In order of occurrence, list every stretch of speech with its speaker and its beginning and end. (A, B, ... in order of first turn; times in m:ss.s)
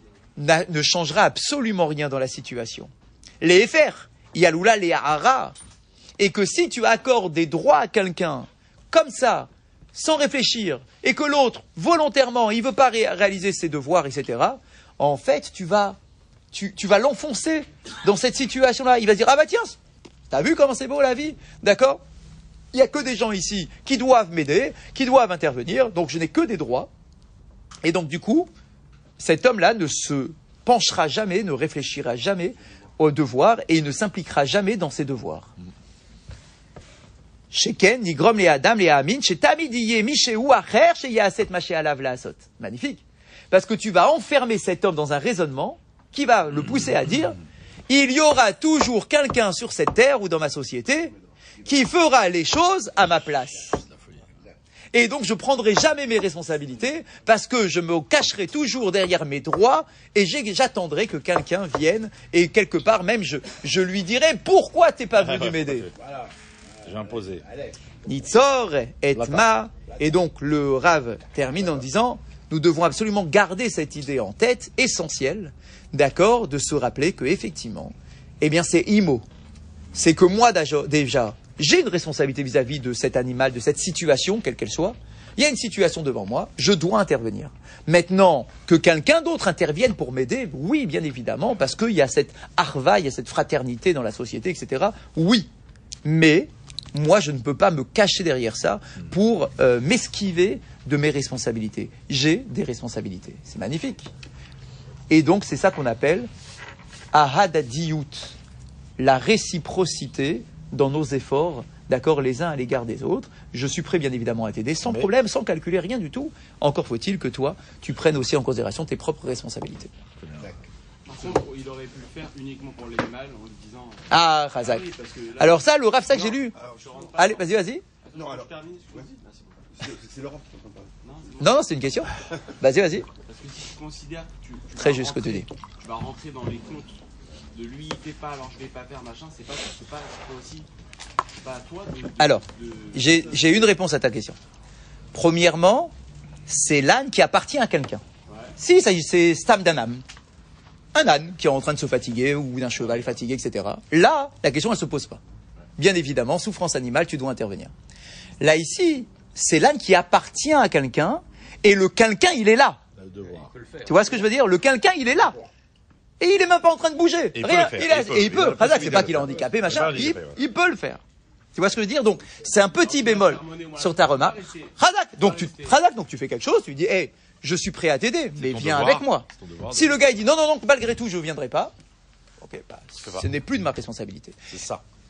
0:00.4-0:05.6 A
0:06.2-0:16.0 A
0:16.5-0:19.8 A
0:20.3-0:22.0 A
0:22.7-0:26.9 A
0:27.8-0:28.5 A
0:29.2-0:35.5 A
0:37.5-0:47.4 A
0:47.9-0:53.8 A
0:53.9-0:54.2 B
0:54.9-1:05.9 A
1:05.2-1:05.9 B
1:06.8-1:07.5 B
1:08.1-1:19.2 A
1:09.2-1:09.4 B
1:19.9-1:35.5 A
1:36.0-1:44.1 A
1:45.1-1:46.3 A
1:47.1-1:48.4 A
1:49.0-1:59.9 A
2:00.2-2:00.6 B
2:01.1-2:05.8 C
2:04.1-2:06.6 A
2:06.1-2:07.1 D
2:06.8-2:07.4 C
2:07.2-2:07.8 A
2:08.0-2:09.7 C
2:08.1-2:09.1 D
2:09.8-2:11.0 D
2:11.0-2:11.5 C
2:11.4-2:13.1 A
2:13.2-2:17.0 C
2:14.8-2:15.5 A
2:17.5-2:20.7 C
2:21.4-2:23.7 C
2:22.2-2:24.4 A
2:25.1-2:25.9 A
2:26.5-2:28.0 A
2:28.6-2:30.0 A
2:30.9-2:35.2 A
2:35.8-2:37.7 A
2:38.4-2:42.8 A
2:43.0-2:43.5 B
2:43.8-2:45.4 A
2:46.2-2:51.0 A
2:47.4-2:50.4 B
2:51.6-3:01.7 A
2:52.8-2:55.8 C
2:58.4-3:00.1 B
3:02.4-3:04.4 A
3:03.0-3:03.3 B
3:04.5-3:04.8 B